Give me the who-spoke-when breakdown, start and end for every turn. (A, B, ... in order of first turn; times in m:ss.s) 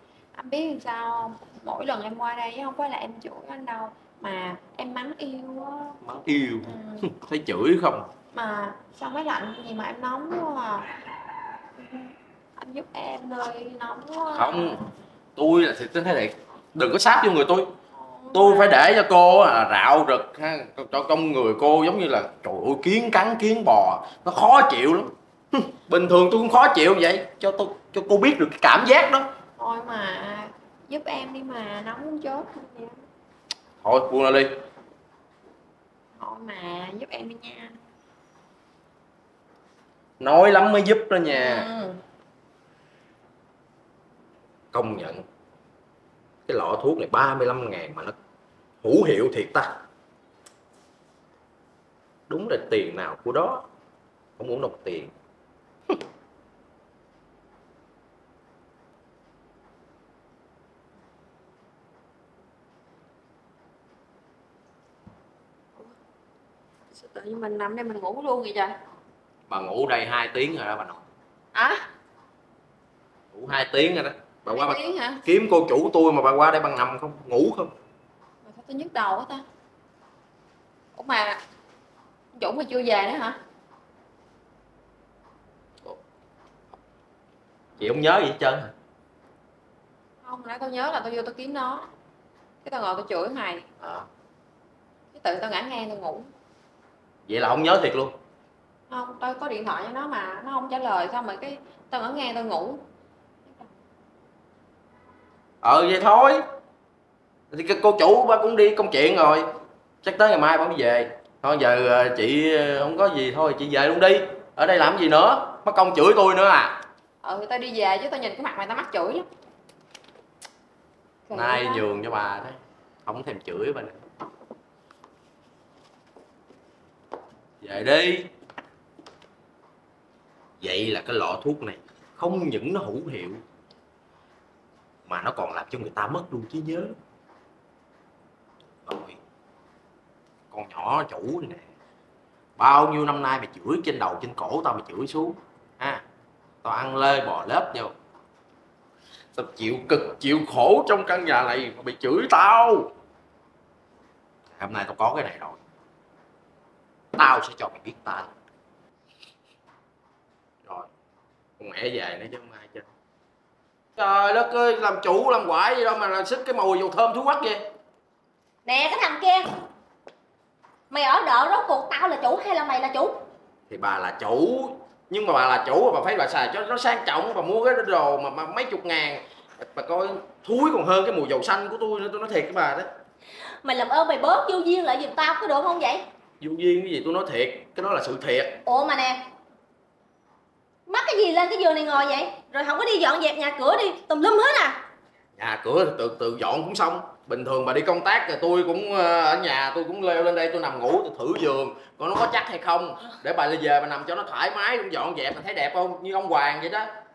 0:00.4-0:06.0 A
0:06.0-0:08.1 B
0:06.6-0:07.1 A
0:08.3-0:10.9 A
0:11.8-0:14.8 A
0:14.3-0:14.8 B
0:15.4-0:17.7 B
0:18.0-0:18.8 A
0:18.3-0:29.3 B
0:29.6-0:33.0 A
0:33.8-0:34.5 B
0:36.2-0:37.8 A
0:40.2-0:41.7 B
0:41.3-0:42.0 A
0:44.7-0:45.2 B
0:46.4-0:48.1 B
0:48.8-0:49.7 B
0:52.3-0:53.6 B
0:54.4-0:55.1 B
1:06.9-1:08.7 A
1:09.5-1:11.0 B
1:11.5-1:11.8 A
1:13.3-1:17.7 B
1:14.5-1:15.2 A
1:18.4-1:19.4 A
1:20.9-1:21.4 A
1:22.3-1:23.4 A
1:27.8-1:28.7 B
1:30.2-1:31.9 A
1:32.6-1:33.6 A
1:33.8-1:34.1 B
1:35.1-1:36.3 A
1:37.3-1:38.1 B
1:38.9-1:42.8 A
1:45.6-1:46.4 B
1:47.5-1:49.4 B
1:50.0-1:56.8 B
1:57.2-1:59.3 A
2:01.3-2:01.8 A
2:01.3-2:04.0 B
2:07.6-2:08.3 B
2:10.6-2:13.4 B
2:15.0-2:17.0 B
2:18.8-2:19.2 B
2:20.5-2:21.7 B
2:22.6-2:26.0 B
2:26.6-2:27.9 B
2:29.3-2:32.9 B
2:34.6-2:35.6 B
2:37.2-2:38.3 B
2:41.6-2:42.9 B
2:44.0-2:47.6 B
2:48.6-2:49.5 C
2:50.9-2:53.2 C
2:53.7-3:02.9 B
3:03.6-3:06.0 C
3:06.4-3:08.6 B
3:08.6-3:09.2 C
3:10.9-3:14.8 C
3:15.4-3:26.9 B